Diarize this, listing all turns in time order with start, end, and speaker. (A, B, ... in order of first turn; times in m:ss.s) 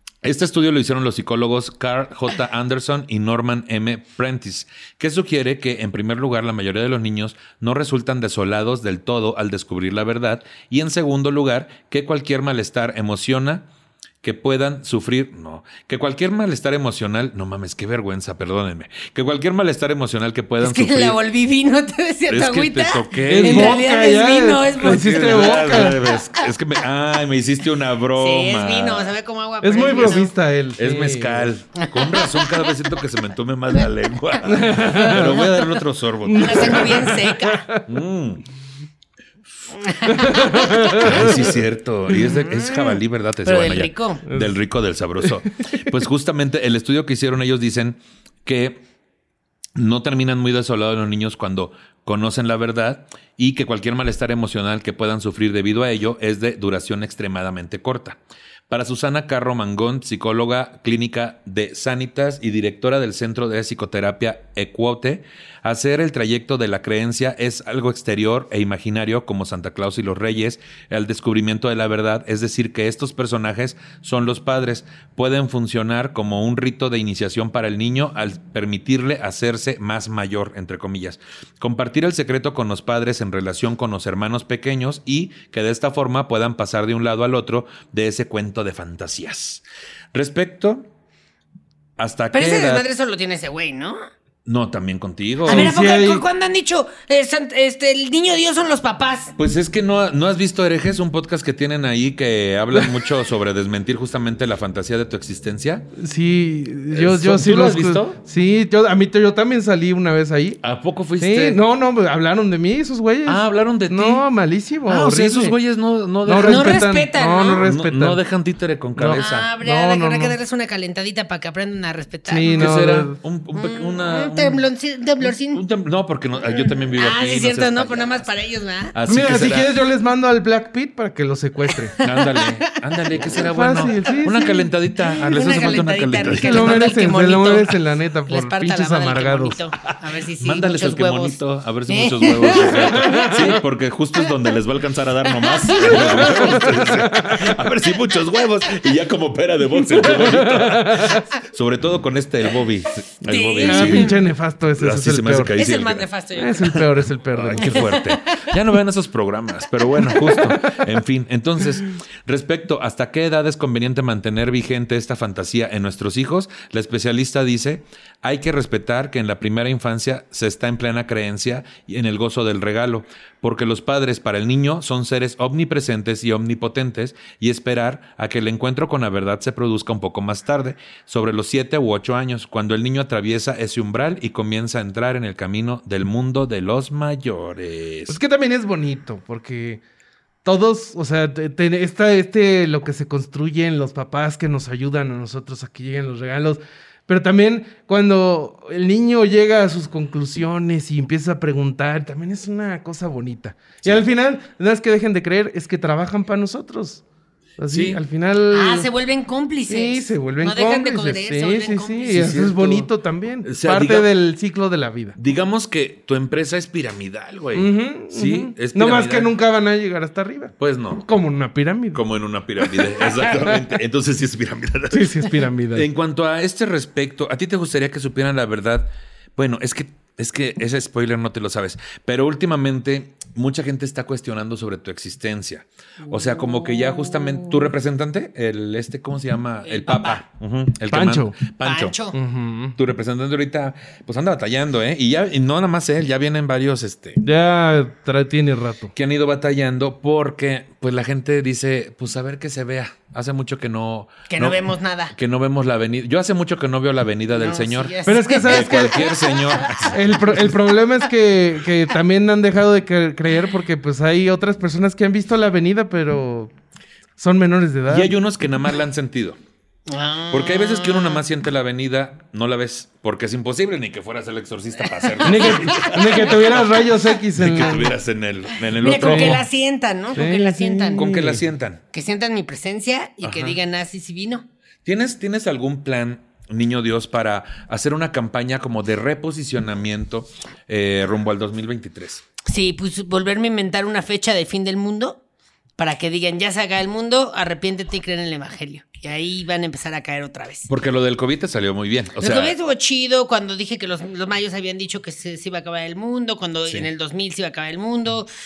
0:00.2-0:13.7 A
0:14.2-0:21.2 A
0:20.6-0:26.1 B
0:22.3-0:23.8 A
0:23.3-0:26.1 C
0:24.8-0:29.1 A
0:28.2-0:30.3 B
0:29.6-0:31.5 C
0:30.8-0:37.1 A
0:31.8-0:32.7 B
0:34.4-0:35.4 C
0:34.6-0:35.7 B
0:36.2-0:37.8 C
0:36.3-0:37.7 B
0:37.9-0:38.4 A
0:39.7-0:41.0 B
0:40.2-0:41.4 C
0:41.0-0:48.8 A
0:42.1-0:44.2 B
0:49.8-0:58.2 A
0:58.7-1:30.9 A
1:32.0-1:32.8 A
1:32.3-1:34.0 B
1:34.4-1:35.7 A
1:35.4-1:36.2 C
1:35.4-1:39.3 B
1:39.4-1:45.9 A
1:46.0-1:50.6 C
1:46.9-1:48.2 A
1:50.6-1:51.6 A
1:51.2-1:55.6 C
1:53.2-1:54.2 A
1:54.8-1:56.8 A
1:56.2-1:58.2 C
1:56.4-1:57.6 B
1:57.6-1:59.5 A
1:59.0-2:00.4 C
1:59.1-2:02.7 B
2:02.3-2:03.2 C
2:02.5-2:04.6 A
2:03.5-2:05.6 B
2:05.2-2:08.3 A
2:06.5-2:08.9 B
2:08.9-2:09.7 A
2:09.1-2:12.0 C
2:11.8-2:13.4 B
2:12.0-2:16.8 A
2:13.3-2:14.7 C
2:15.0-2:23.5 B
2:16.3-2:19.6 C
2:20.4-2:34.2 A
2:22.6-2:23.4 C
2:25.4-2:26.6 B
2:25.9-2:27.4 C
2:29.9-2:31.2 C
2:33.2-2:34.2 B
2:33.6-2:35.6 C
2:34.8-2:36.1 A
2:35.5-2:36.8 B
2:36.4-2:37.9 C
2:36.7-3:08.2 A
2:37.6-2:38.5 B
3:08.1-3:09.8 C
3:10.4-3:27.0 C
3:27.6-3:28.9 C
3:27.7-3:28.0 A
3:28.5-3:32.2 B
3:29.7-3:35.2 C
3:32.1-3:32.9 A
3:33.4-3:34.1 A
3:35.2-3:39.3 A
3:37.5-3:42.0 C
3:40.6-3:41.0 A
3:41.9-4:02.0 A
3:42.6-3:43.6 C
3:44.9-3:45.9 C
3:56.0-3:57.6 B
3:59.6-4:00.2 B
4:00.9-4:01.5 C
4:01.6-4:02.2 B
4:02.1-4:02.8 C
4:02.8-4:07.2 A
4:07.2-4:08.9 C
4:08.9-4:20.6 A
4:14.3-4:15.1 B
4:17.3-4:19.9 B
4:18.0-4:19.1 C
4:19.8-4:26.5 C
4:27.2-4:28.1 C
4:27.9-4:29.4 A
4:29.9-4:31.2 B
4:30.3-4:39.4 A
4:35.0-4:36.2 B
4:35.2-4:38.0 C
4:38.7-4:41.1 B
4:38.8-4:39.4 C
4:40.1-4:41.4 C
4:41.0-4:41.8 A
4:41.9-4:44.4 B
4:43.2-4:43.6 A
4:44.8-4:52.2 A
4:52.4-4:55.2 B
4:55.8-5:00.7 B
5:00.7-5:02.6 A
5:02.2-5:08.3 B